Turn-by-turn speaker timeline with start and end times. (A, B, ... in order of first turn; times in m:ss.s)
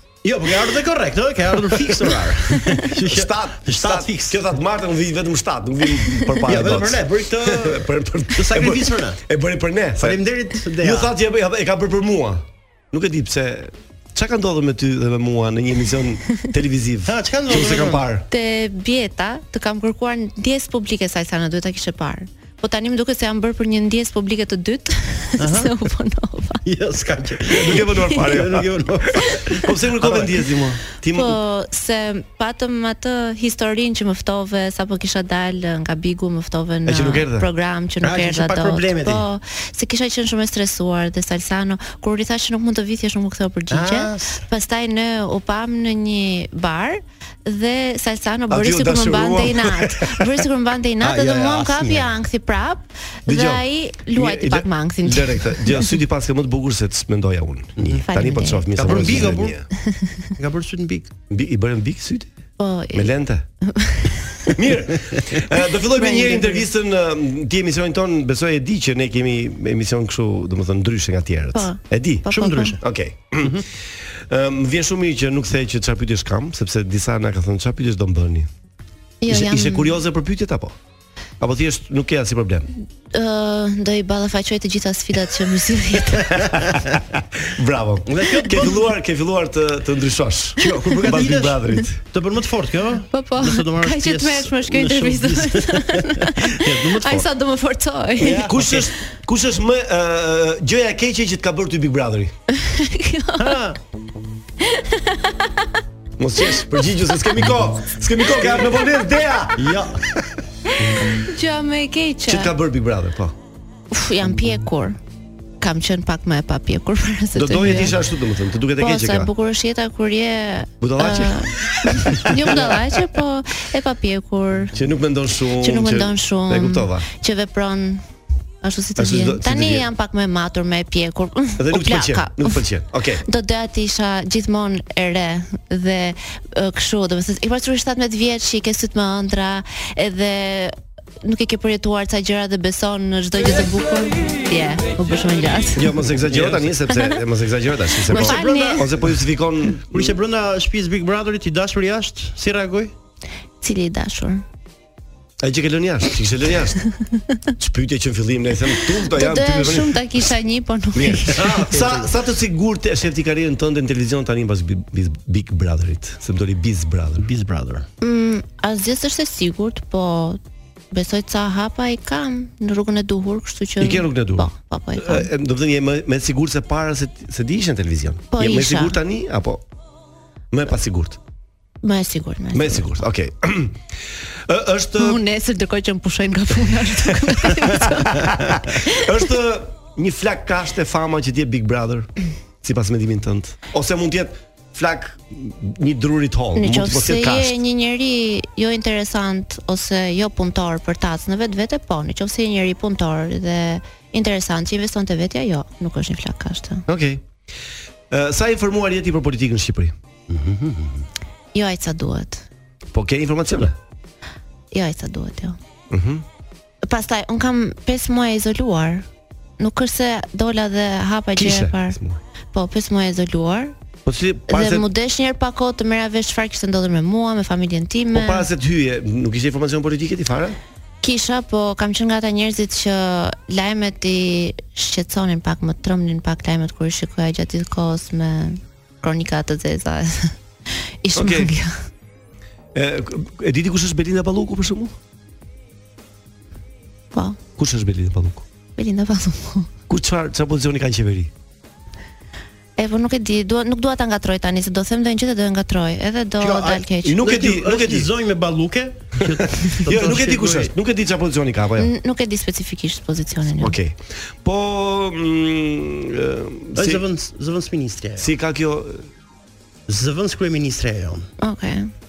0:00.2-0:04.4 A
0:02.9-0:10.2 B
0:06.5-0:09.2 A
0:10.0-0:11.1 A
0:10.8-0:18.3 B
0:17.1-0:18.1 A
0:18.3-0:26.6 C
0:25.4-0:25.8 A
0:26.6-0:30.5 A
0:27.5-0:31.4 B
0:31.1-0:56.0 C
0:36.9-0:37.5 B
0:38.0-0:39.3 A
0:43.7-0:44.5 A
0:48.5-0:50.4 B
0:51.0-0:52.2 A
0:53.3-0:59.7 B
0:57.8-0:58.1 A
0:58.1-0:59.4 C
0:58.8-0:59.6 A
1:00.4-1:01.1 A
1:01.3-1:02.3 B
1:02.6-1:04.6 C
1:02.9-1:03.5 B
1:04.5-1:18.5 B
1:05.9-1:06.7 C
1:11.5-1:12.8 C
1:12.3-1:12.8 A
1:19.2-1:20.0 C
1:19.3-1:20.8 B
1:21.4-1:22.7 B
1:23.1-1:26.6 C
1:26.4-1:27.0 A
1:26.9-1:32.0 B
1:28.1-1:28.9 A
1:30.6-1:37.3 A
1:33.1-1:38.5 C
1:38.2-1:38.9 A
1:38.3-1:42.3 B
1:42.5-1:43.6 C
1:43.4-1:43.8 A
1:44.6-1:45.5 C
1:46.2-1:50.4 B
1:48.3-1:48.7 A
1:49.6-1:50.0 A
1:51.2-1:52.6 C
1:52.3-1:53.4 B
1:53.9-1:55.0 C
1:55.6-1:58.0 C
1:57.4-1:59.3 B
1:58.8-2:04.8 C
2:00.8-2:03.1 B
2:04.7-2:07.1 B
2:05.6-2:08.0 C
2:08.6-2:12.7 C
2:09.0-2:09.9 B
2:11.6-2:13.2 B
2:13.2-2:26.0 C
2:25.7-2:30.2 B
2:26.3-2:26.7 A
2:26.9-2:27.2 C
2:28.1-2:28.9 C
2:28.1-2:29.2 A
2:29.8-2:32.9 A
2:33.6-2:34.4 C
2:35.4-2:36.8 B
2:37.6-2:40.1 B
2:39.1-2:41.5 C
2:40.9-2:47.3 B
2:41.3-2:42.1 A
2:47.2-2:47.9 A
2:48.0-2:50.4 C
2:50.9-2:55.3 C
2:53.8-2:59.6 B
2:58.3-2:59.0 C
3:00.5-3:01.2 B
3:01.8-3:02.9 C
3:02.5-3:03.8 B
3:04.5-3:05.2 B
3:05.0-3:09.2 C
3:07.1-3:12.1 B
3:12.6-3:17.6 B
3:16.6-3:26.9 C
3:26.9-3:27.2 B
3:28.1-3:30.0 B
3:30.3-3:31.0 A
3:31.5-3:32.5 C
3:32.9-3:33.8 B
3:34.7-3:35.6 C
3:35.9-3:36.2 B
3:36.8-3:39.1 C
3:39.6-3:42.0 C
3:41.4-3:42.2 B
3:42.5-3:43.8 C
3:44.1-3:44.9 B
3:44.5-3:48.5 C
3:48.1-3:50.6 B
3:51.0-4:00.4 C
4:01.0-4:01.7 C
4:01.1-4:01.5 B
4:02.7-4:05.0 B
4:07.1-4:07.4 C
4:07.6-4:08.5 B
4:08.8-4:09.7 C
4:09.9-4:11.3 B
4:12.8-4:17.2 C
4:16.4-4:20.7 A
4:17.0-4:18.1 B
4:19.4-4:21.9 B
4:21.8-4:23.8 C
4:23.6-4:27.0 B
4:26.8-4:28.3 A
4:28.2-4:29.1 B
4:29.9-4:31.3 A
4:31.4-4:31.9 C